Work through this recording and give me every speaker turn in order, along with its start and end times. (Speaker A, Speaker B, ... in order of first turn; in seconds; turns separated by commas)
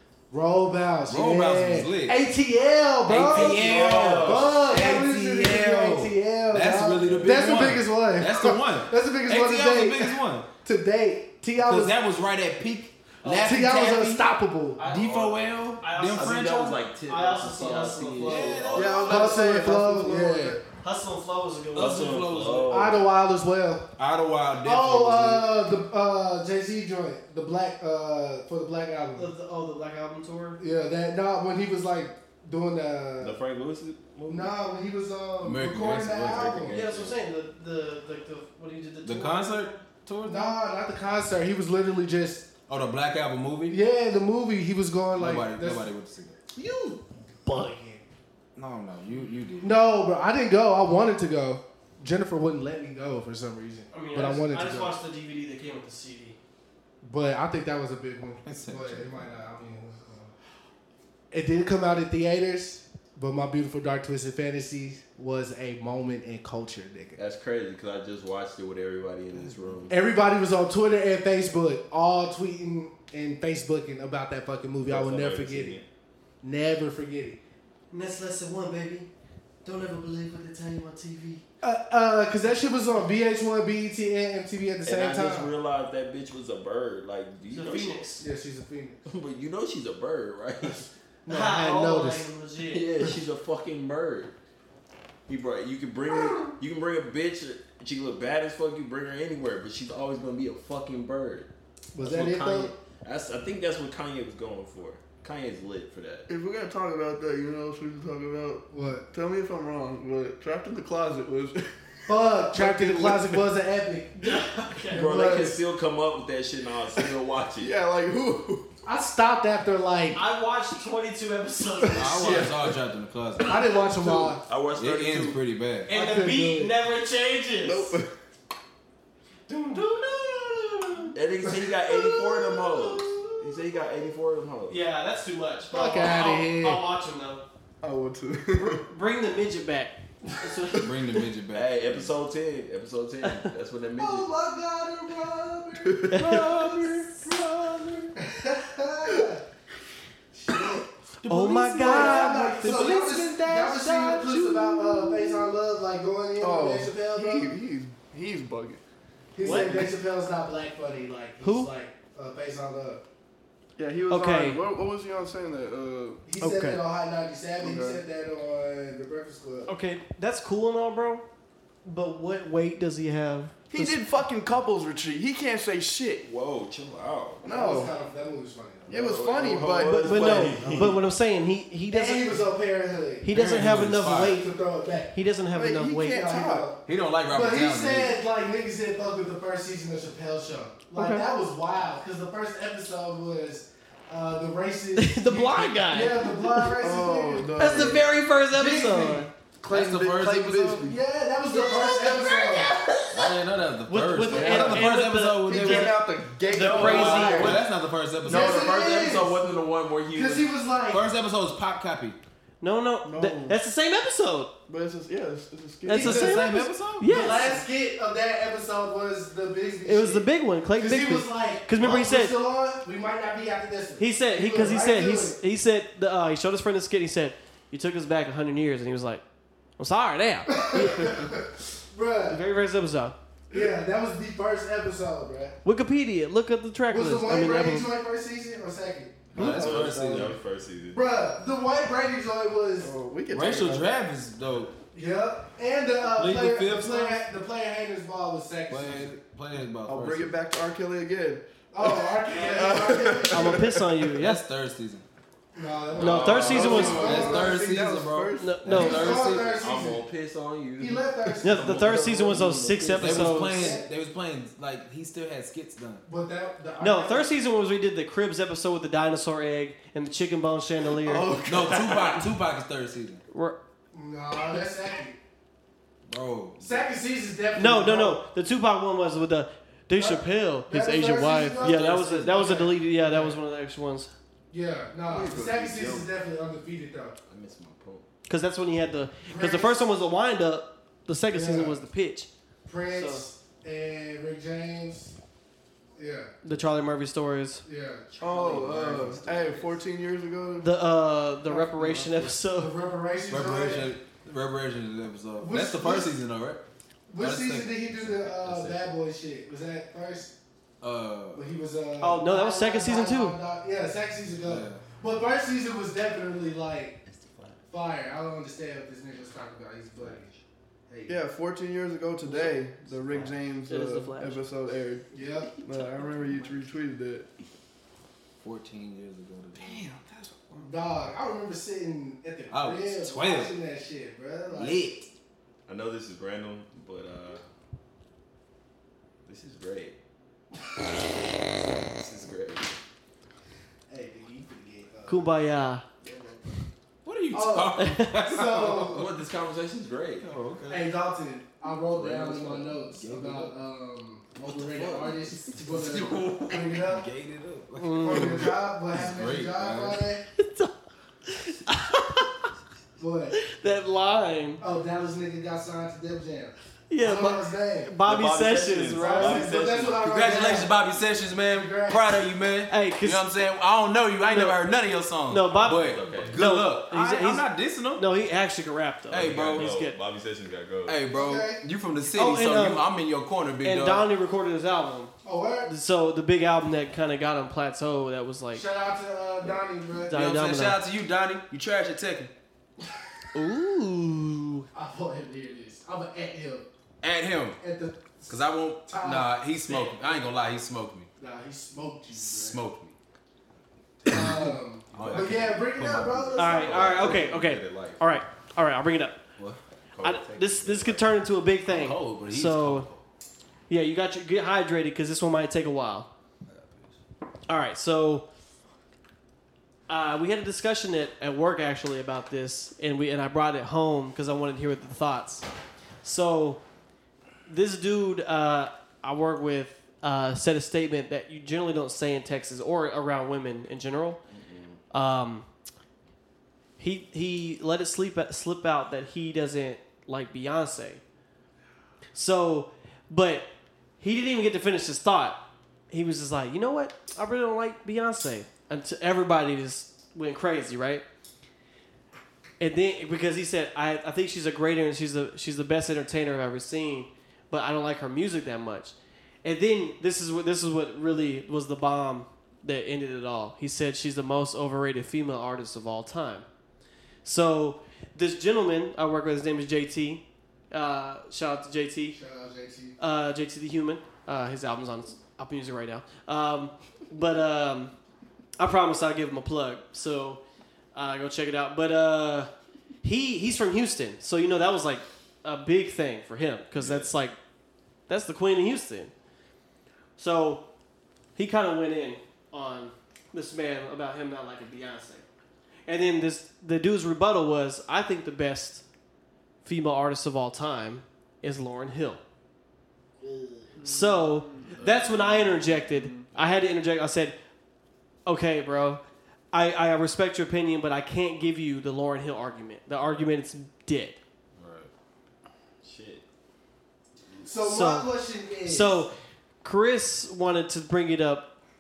Speaker A: 0.3-12.0, Speaker B: 1.1-2.2, Speaker B: 3.1-10.5, Speaker C: 3.2-4.7, Speaker C: 7.0-7.6, Speaker B: 11.6-14.3, Speaker D: 13.2-13.5, Speaker A: 13.3-14.8, Speaker D: 14.8-18.8, Speaker B: 14.8-16.8, Speaker C: 16.1-19.1, Speaker B: 18.2-19.5, Speaker E: 18.7-20.6, Speaker A: 19.0-20.6, Speaker D: 20.8-22.2, Speaker B: 21.7-22.8, Speaker C: 21.8-23.1, Speaker A: 22.7-23.9, Speaker B: 24.0-25.7, Speaker A: 24.6-29.3, Speaker D: 29.2-30.6, Speaker A: 30.6-33.4, Speaker C: 33.2-34.5, Speaker A: 34.3-36.7, Speaker B: 35.4-36.7, Speaker C: 36.2-37.2, Speaker D: 36.7-39.8, Speaker B: 39.0-40.6, Speaker A: 40.3-42.5, Speaker B: 42.7-43.8, Speaker A: 43.7-45.9, Speaker B: 45.1-46.4, Speaker A: 46.5-48.1, Speaker B: 48.6-49.8, Speaker A: 49.6-55.0, Speaker D: 53.9-56.4, Speaker A: 57.0-60.3, Speaker B: 58.5-59.4, Speaker A: 61.3-67.2, Speaker C: 67.2-69.9, Speaker A: 69.9-75.8, Speaker C: 74.8-75.9, Speaker A: 76.4-77.4, Speaker D: 77.9-79.1, Speaker D: 79.6-81.4, Speaker A: 81.6-85.5, Speaker C: 84.8-88.0, Speaker D: 87.5-88.3, Speaker A: 88.2-89.0, Speaker C: 89.1-90.9, Speaker A: 91.3-92.3, Speaker D: 91.3-92.9, Speaker C: 92.7-94.4, Speaker C: 95.3-106.3, Speaker A: 96.2-96.5, Speaker A: 101.9-102.7, Speaker E: 106.3-111.7, Speaker A: 108.7-109.1, Speaker A: 112.1-114.4, Speaker E: 112.5-113.5, Speaker D: 114.2-115.1, Speaker A: 114.9-115.6, Speaker C: 114.9-117.7, Speaker E: 117.6-118.7, Speaker A: 118.8-120.2, Speaker D: 120.1-122.5, Speaker B: 122.0-123.8, Speaker E: 122.2-122.5, Speaker A: 123.4-124.4, Speaker C: 124.5-125.4, Speaker B: 124.7-125.9, Speaker A: 125.9-126.8, Speaker D: 125.9-128.0, Speaker E: 127.6-128.1, Speaker D: 129.5-131.2, Speaker C: 131.2-134.8, Speaker A: 131.5-132.4, Speaker D: 134.7-137.4, Speaker A: 135.7-136.8, Speaker E: 137.8-138.8, Speaker D: 138.5-140.9, Speaker B: 140.8-142.1, Speaker C: 141.5-144.3, Speaker A: 144.0-147.0, Speaker E: 145.8-146.2, Speaker D: 146.1-146.4, Speaker B: 146.1-148.2, Speaker A: 148.2-149.4, Speaker A: 150.3-150.9, Speaker D: 151.2-152.9, Speaker B: 151.2-155.5, Speaker A: 151.8-157.6, Speaker E: 156.4-158.8, Speaker A: 159.3-163.0, Speaker D: 159.4-159.9, Speaker D: 161.4-161.7, Speaker E: 163.8-166.2, Speaker D: 164.1-164.6, Speaker A: 166.2-169.7, Speaker D: 166.4-166.8, Speaker E: 167.6-168.0, Speaker D: 169.7-171.2, Speaker D: 171.8-174.0, Speaker E: 173.7-176.3, Speaker C: 176.2-177.5, Speaker E: 177.4-177.9, Speaker A: 177.5-179.1, Speaker E: 178.9-180.9, Speaker C: 178.9-181.0, Speaker D: 180.0-182.4, Speaker A: 180.6-180.9, Speaker A: 181.9-185.1, Speaker D: 183.2-184.4, Speaker B: 183.3-184.4, Speaker D: 185.1-186.2, Speaker E: 185.5-186.7, Speaker A: 186.1-198.0, Speaker B: 186.9-188.2, Speaker E: 190.9-191.3, Speaker D: 195.0-196.7, Speaker E: 196.8-198.1, Speaker D: 197.6-199.3, Speaker A: 198.5-199.3, Speaker E: 199.6-201.0, Speaker B: 199.7-200.9, Speaker A: 200.8-202.7, Speaker B: 203.1-206.0, Speaker D: 203.9-207.6, Speaker E: 204.3-207.6, Speaker C: 206.5-207.7, Speaker B: 206.8-208.7, Speaker A: 208.2-209.6, Speaker C: 208.2-210.5, Speaker A: 210.1-211.0, Speaker B: 210.9-212.2, Speaker D: 212.6-214.5, Speaker E: 213.0-213.6, Speaker E: 214.7-216.2, Speaker D: 215.8-217.6, Speaker A: 215.9-225.4, Speaker B: 216.0-217.3, Speaker D: 219.8-222.3, Speaker D: 224.0-229.2, Speaker D: 229.8-231.3, Speaker A: 230.5-232.4, Speaker D: 232.3-233.2, Speaker A: 233.5-235.6, Speaker D: 235.6-237.9, Speaker A: 236.9-239.4, Speaker B: 239.3-240.4, Speaker C: 239.3-241.0, Speaker E: 239.4-240.3, Speaker A: 240.9-242.9, Speaker E: 242.8-243.9, Speaker B: 243.3-244.8, Speaker A: 244.9-249.1, Speaker B: 246.1-247.2, Speaker B: 248.7-250.3, Speaker E: 249.9-253.9, Speaker A: 251.7-253.7, Speaker D: 252.3-254.4, Speaker B: 254.2-255.1, Speaker A: 255.6-258.1, Speaker C: 255.9-257.2, Speaker D: 256.0-257.2, Speaker B: 256.3-259.6, Speaker E: 256.4-258.7, Speaker D: 258.4-259.1, Speaker A: 258.7-260.0, Speaker C: 258.8-262.7, Speaker A: 260.8-262.3, Speaker D: 261.4-263.7, Speaker E: 261.8-263.0, Speaker A: 262.9-263.9, Speaker B: 263.0-266.1, Speaker A: 266.1-267.3, Speaker D: 266.8-272.1, Speaker E: 271.0-272.2, Speaker B: 271.4-273.2, Speaker D: 273.3-273.6, Speaker A: 273.9-275.2, Speaker B: 276.1-276.9, Speaker A: 276.6-278.2, Speaker D: 277.6-284.1, Speaker A: 280.0-283.4, Speaker B: 281.6-282.5, Speaker A: 284.5-287.2, Speaker E: 285.1-286.1, Speaker C: 287.3-288.1, Speaker D: 288.3-292.3, Speaker A: 289.3-289.9, Speaker A: 291.3-291.8, Speaker A: 292.7-295.1, Speaker D: 292.9-293.3, Speaker A: 296.0-296.3, Speaker D: 296.4-297.6, Speaker A: 297.6-298.1, Speaker C: 298.1-299.8, Speaker E: 298.2-300.7, Speaker D: 300.6-302.7, Speaker E: 301.7-302.1, Speaker A: 302.5-304.0, Speaker B: 303.3-306.6, Speaker A: 305.4-306.2, Speaker A: 307.1-310.3, Speaker B: 307.2-308.9, Speaker B: 310.8-311.4, Speaker A: 311.3-317.0, Speaker D: 312.0-313.4, Speaker B: 314.4-314.8, Speaker C: 317.1-317.7, Speaker A: 317.7-320.3, Speaker C: 320.0-320.4, Speaker A: 320.9-321.2, Speaker E: 321.1-325.1, Speaker C: 322.9-323.4, Speaker D: 323.7-324.4, Speaker A: 325.1-325.6, Speaker E: 325.6-327.3, Speaker C: 326.0-326.5, Speaker B: 328.4-329.9, Speaker E: 329.6-330.7, Speaker A: 330.7-334.9, Speaker B: 332.5-333.6, Speaker B: 334.5-335.1, Speaker C: 335.7-337.4, Speaker C: 339.3-340.0, Speaker C: 341.0-342.8, Speaker A: 343.9-345.3, Speaker D: 345.1-345.8, Speaker C: 346.1-346.4, Speaker B: 347.0-349.1, Speaker A: 347.3-349.0, Speaker D: 347.8-348.2, Speaker C: 348.7-350.3, Speaker B: 350.2-350.9, Speaker A: 350.7-357.1, Speaker C: 351.9-352.6, Speaker B: 352.1-353.6, Speaker C: 354.5-356.7, Speaker B: 355.7-360.0, Speaker D: 357.8-358.4, Speaker A: 358.0-360.2, Speaker D: 360.4-360.7, Speaker D: 361.3-362.5, Speaker A: 363.0-363.4, Speaker D: 363.4-364.6, Speaker A: 364.6-368.0, Speaker D: 366.9-369.5, Speaker C: 368.1-370.1, Speaker A: 369.0-370.8, Speaker B: 370.0-378.1, Speaker A: 371.5-372.2, Speaker D: 372.7-373.3, Speaker D: 374.3-374.6, Speaker D: 375.3-380.0, Speaker C: 375.5-376.4, Speaker B: 379.1-379.7, Speaker C: 379.1-381.0, Speaker B: 380.9-384.1, Speaker A: 381.1-381.6, Speaker D: 382.1-382.9, Speaker D: 383.6-385.1, Speaker A: 385.2-385.7, Speaker D: 385.7-388.6, Speaker A: 388.5-390.1, Speaker D: 390.1-390.8, Speaker B: 390.1-392.3, Speaker D: 393.3-394.7, Speaker A: 394.7-396.7, Speaker B: 397.0-397.6, Speaker A: 397.6-400.2, Speaker B: 398.3-401.1, Speaker A: 401.2-402.6, Speaker B: 402.1-402.9, Speaker A: 404.1-407.2, Speaker B: 404.1-406.7, Speaker C: 404.9-405.5, Speaker D: 406.4-409.2, Speaker C: 406.4-408.0, Speaker C: 409.9-411.2, Speaker D: 410.0-412.9, Speaker B: 411.7-413.0, Speaker D: 413.7-416.1, Speaker C: 416.5-417.0, Speaker D: 417.5-418.3, Speaker D: 419.9-425.5, Speaker D: 426.0-426.6, Speaker D: 427.5-434.2, Speaker C: 434.3-434.8, Speaker D: 434.9-435.5, Speaker D: 436.8-441.0, Speaker D: 442.1-443.5, Speaker D: 444.0-445.4, Speaker D: 445.9-451.0, Speaker D: 452.6-466.5, Speaker D: 467.2-472.2, Speaker A: 472.1-473.0, Speaker D: 473.0-477.9, Speaker D: 478.6-480.4, Speaker D: 480.9-482.5, Speaker D: 483.0-487.4, Speaker C: 486.8-487.1, Speaker D: 488.1-489.1, Speaker D: 490.2-490.6, Speaker D: 491.4-495.2, Speaker D: 495.9-498.8, Speaker D: 499.6-502.2, Speaker A: 503.2-503.7, Speaker E: 503.8-504.8, Speaker D: 503.8-507.4, Speaker C: 504.7-505.9, Speaker E: 505.9-506.3, Speaker D: 508.3-514.2, Speaker C: 514.6-514.9, Speaker C: 515.8-516.2, Speaker A: 517.4-519.1, Speaker D: 517.6-518.1, Speaker D: 518.6-521.5